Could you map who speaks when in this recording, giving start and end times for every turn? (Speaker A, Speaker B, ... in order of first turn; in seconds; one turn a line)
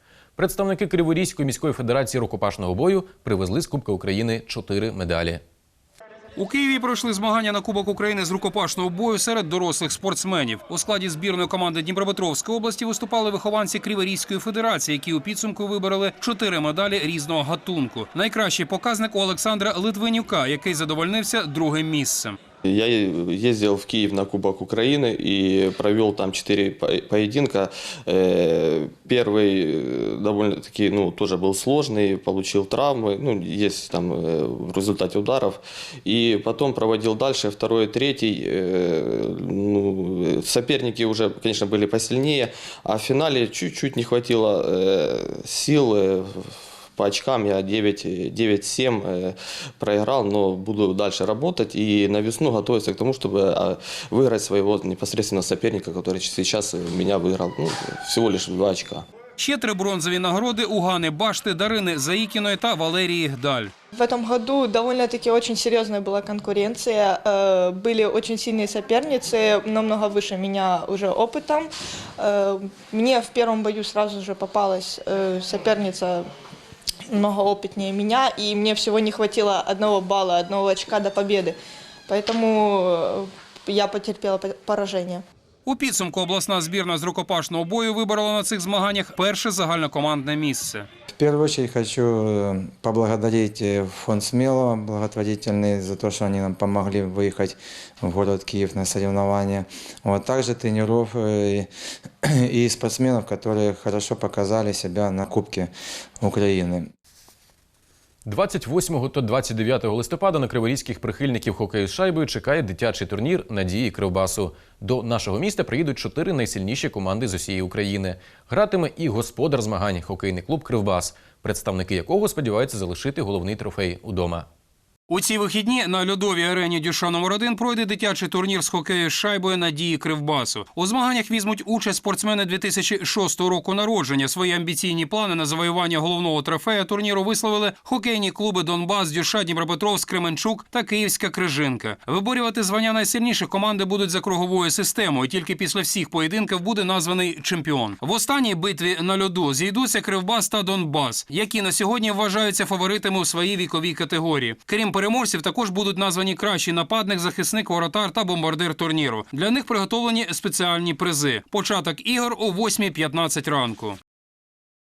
Speaker A: 0.4-5.4
Speaker B: 6.4-22.4
Speaker C: 22.6-59.0
Speaker B: 59.4-63.7
Speaker D: 63.9-76.2
Speaker D: 77.1-85.2
Speaker B: 85.7-90.9
Speaker E: 91.1-101.7
Speaker E: 102.4-105.7
Speaker E: 106.2-106.8
Speaker A: 108.2-124.5
Speaker B: 125.1-164.0